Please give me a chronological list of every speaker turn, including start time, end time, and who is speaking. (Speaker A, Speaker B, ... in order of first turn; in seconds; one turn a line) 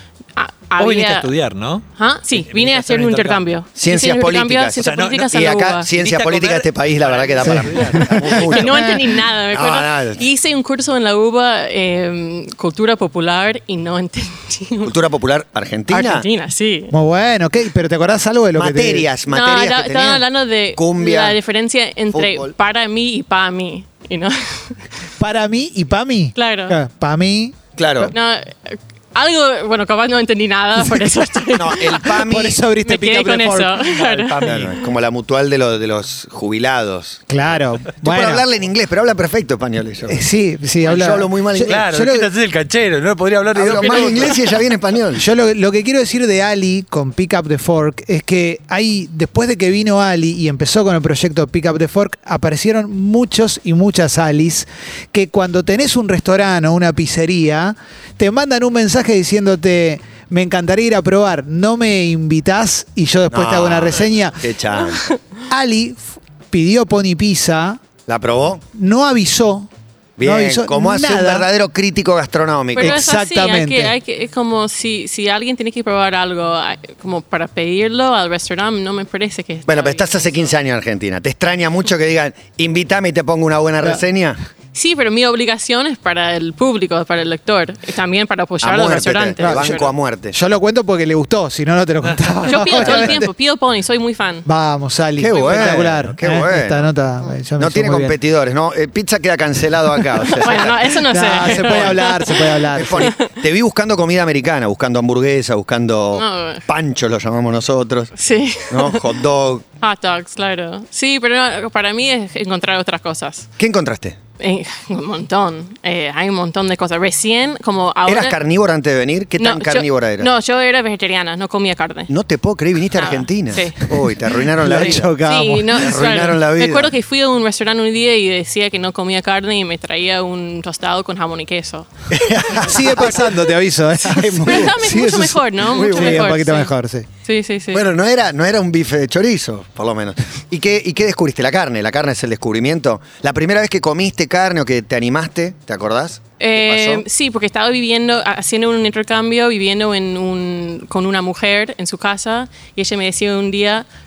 Speaker A: 0.4-1.3
Speaker B: 0.8-3.5
Speaker A: 2.0-5.9
Speaker C: 3.8-9.0
Speaker B: 4.8-8.6
Speaker D: 7.4-8.9
Speaker A: 8.5-14.9
Speaker C: 9.5-10.2
Speaker C: 14.8-16.3
Speaker A: 15.9-16.9
Speaker D: 16.9-19.1
Speaker C: 18.6-21.4
Speaker A: 19.3-24.9
Speaker C: 22.1-22.5
Speaker D: 25.2-28.1
Speaker A: 26.4-26.8
Speaker C: 27.8-28.1
Speaker A: 28.1-34.6
Speaker C: 31.5-32.6
Speaker D: 32.2-33.8
Speaker B: 33.9-34.8
Speaker C: 34.5-37.3
Speaker D: 37.3-38.4
Speaker C: 37.9-40.2
Speaker D: 40.1-42.3
Speaker C: 40.8-41.8
Speaker B: 41.6-44.5
Speaker C: 43.5-45.2
Speaker A: 43.8-44.4
Speaker D: 45.2-64.5
Speaker C: 63.3-65.1
Speaker D: 65.5-67.8
Speaker C: 68.1-68.6
Speaker D: 68.7-69.7
Speaker C: 70.2-73.0
Speaker D: 70.2-71.5
Speaker A: 72.8-80.5
Speaker D: 72.8-74.0
Speaker C: 79.7-84.4
Speaker A: 84.7-89.9
Speaker C: 88.6-90.4
Speaker D: 89.4-89.8
Speaker D: 90.3-93.3
Speaker A: 92.5-94.5
Speaker C: 92.7-93.2
Speaker D: 94.5-98.2
Speaker C: 95.2-96.9
Speaker A: 95.3-95.8
Speaker C: 97.6-102.0
Speaker A: 100.2-103.3
Speaker D: 101.1-103.2
Speaker C: 102.7-108.1
Speaker A: 106.2-106.7
Speaker A: 108.2-109.0
Speaker C: 108.7-109.7
Speaker A: 109.8-113.5
Speaker C: 113.6-114.2
Speaker A: 114.4-118.4
Speaker C: 118.1-120.3
Speaker A: 119.4-122.1
Speaker C: 122.1-125.1
Speaker A: 123.0-123.9
Speaker D: 124.6-125.8
Speaker A: 124.7-132.8
Speaker C: 125.7-126.9
Speaker C: 132.1-133.3
Speaker D: 132.5-137.1
Speaker C: 134.1-134.8
Speaker A: 134.4-136.7
Speaker C: 135.7-136.4
Speaker A: 137.2-137.8
Speaker C: 137.7-147.0
Speaker A: 146.4-153.8